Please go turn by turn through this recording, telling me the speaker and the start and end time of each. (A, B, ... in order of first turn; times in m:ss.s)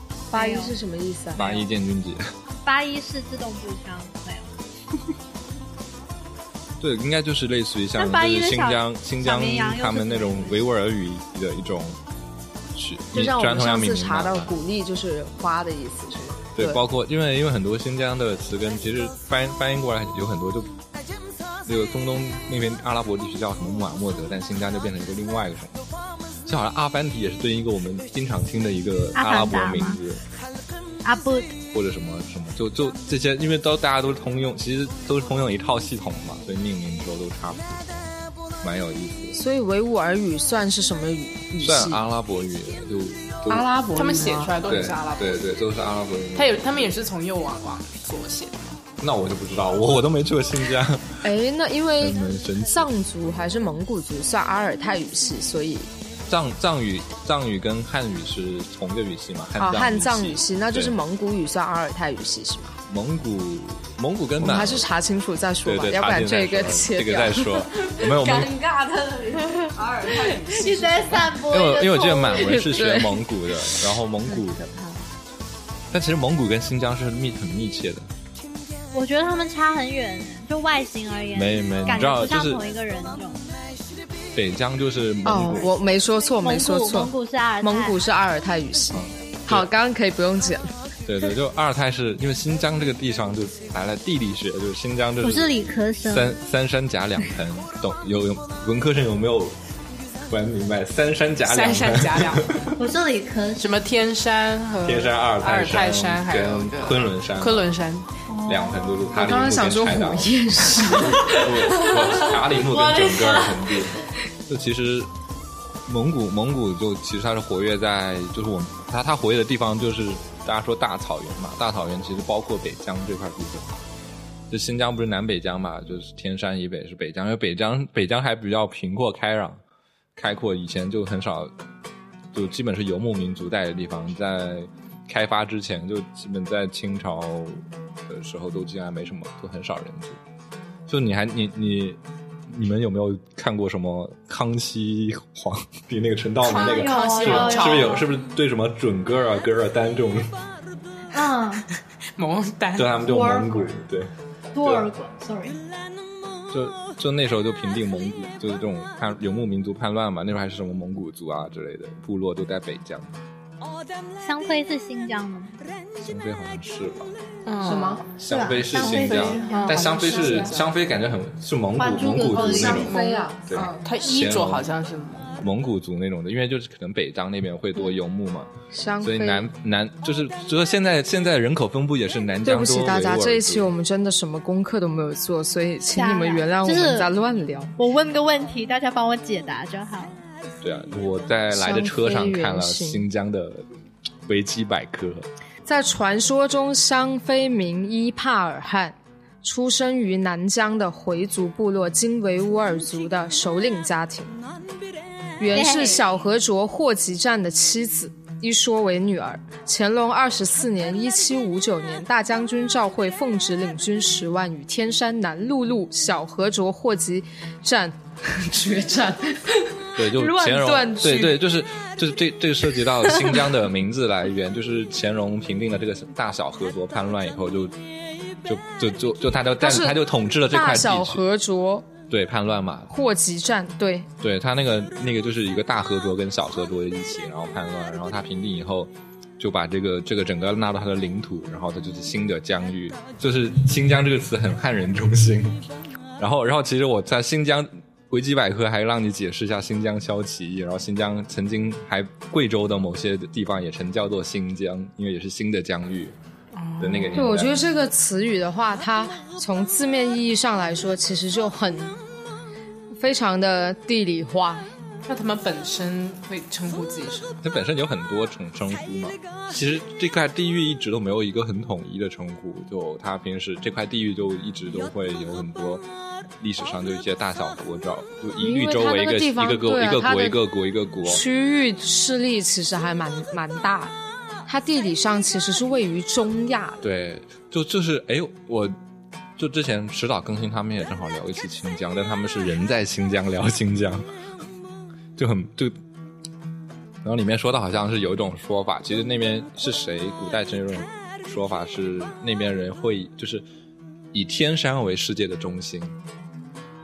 0:00.3-0:01.5 A
0:00.3-0:00.7 B
0:01.3-0:02.3 C
0:02.5-0:04.6 B
0:06.8-0:12.0 C
0:08.0-0:10.7 B
0:12.7-0:14.5 C
0:13.1-0:16.8 A
0:16.6-0:20.7 C
0:21.6-0:25.8 C
0:26.4-0:30.2 C
0:29.1-0:30.0 B
0:31.0-0:31.5 B
0:31.7-0:38.0 C
0:38.6-0:39.4 C
0:39.3-0:42.0 A
0:41.6-0:43.7 C
0:43.5-0:44.5 A
0:43.9-0:45.4 D
0:44.6-0:46.9 C
0:46.4-0:48.8 D
0:49.0-0:51.2 C
0:51.2-0:55.9 A
0:52.0-0:52.9 C
0:56.3-1:01.0 C
0:59.6-1:02.8 A
1:02.9-1:04.9 C
1:04.4-1:07.6 A
1:05.6-1:08.6 C
1:08.2-1:12.6 B
1:09.7-1:11.3 D
1:11.4-1:14.6 C
1:12.4-1:13.2 A
1:14.3-1:14.9 A
1:15.9-1:18.1 C
1:18.9-1:23.5 B
1:21.3-1:22.6 C
1:24.3-1:25.7 C
1:25.2-1:30.7 A
1:26.4-1:28.0 B
1:28.9-1:29.7 C
1:31.0-1:35.5 C
1:35.2-1:36.4 B
1:36.0-1:39.6 C
1:40.3-1:42.7 C
1:41.4-1:42.5 D
1:42.8-1:43.8 B
1:43.6-1:48.1 D
1:44.8-1:47.6 C
1:48.3-1:49.0 B
1:48.4-1:55.1 C
1:49.1-1:51.5 A
1:51.7-1:53.8 B
1:55.8-2:03.8 C
2:04.5-2:09.6 C
2:10.2-2:11.5 C
2:12.3-2:20.2 C
2:20.9-2:30.4 C
2:26.5-2:28.0 B
2:26.5-2:28.0 D
2:31.1-2:31.6 B
2:32.2-2:32.9 D
2:32.8-2:34.9 C
2:33.0-2:33.8 B
2:34.5-2:35.6 B
2:36.5-2:43.2 C
2:44.2-2:45.6 B
2:46.0-2:47.1 C
2:47.4-2:48.1 D
2:47.6-2:48.0 A
2:48.2-2:52.9 C
2:48.3-2:50.0 B
2:48.8-2:50.7 D
2:49.5-2:50.5 A
2:51.8-2:52.9 B
2:52.4-2:55.4 D
2:52.5-2:53.8 A
2:53.5-2:54.7 C
2:55.4-3:03.7 C
2:58.7-2:59.4 A
3:02.4-3:07.7 A
3:05.9-3:07.1 B
3:07.8-3:10.2 B
3:10.6-3:13.7 C
3:11.5-3:13.0 A
3:14.2-3:15.3 C
3:15.6-3:24.4 A
3:25.4-3:41.4 A
3:25.5-3:26.0 B
3:39.9-3:47.8 C
3:48.4-3:51.2 C
3:49.6-3:51.9 A
3:52.1-3:52.9 C
3:52.9-3:54.1 A
3:54.2-4:05.6 C
4:06.2-4:16.2 C
4:16.5-4:17.3 D
4:16.8-4:17.7 C
4:17.2-4:22.0 A
4:23.0-4:24.7 A
4:25.0-4:27.4 D
4:27.4-4:35.8 C
4:36.4-4:41.2 C
4:38.4-4:40.4 A
4:41.1-4:43.9 A
4:44.5-4:46.8 A
4:46.8-4:48.8 C
4:49.4-4:54.0 C
4:55.2-4:55.8 C
4:57.0-5:03.4 C
5:04.1-5:06.0 C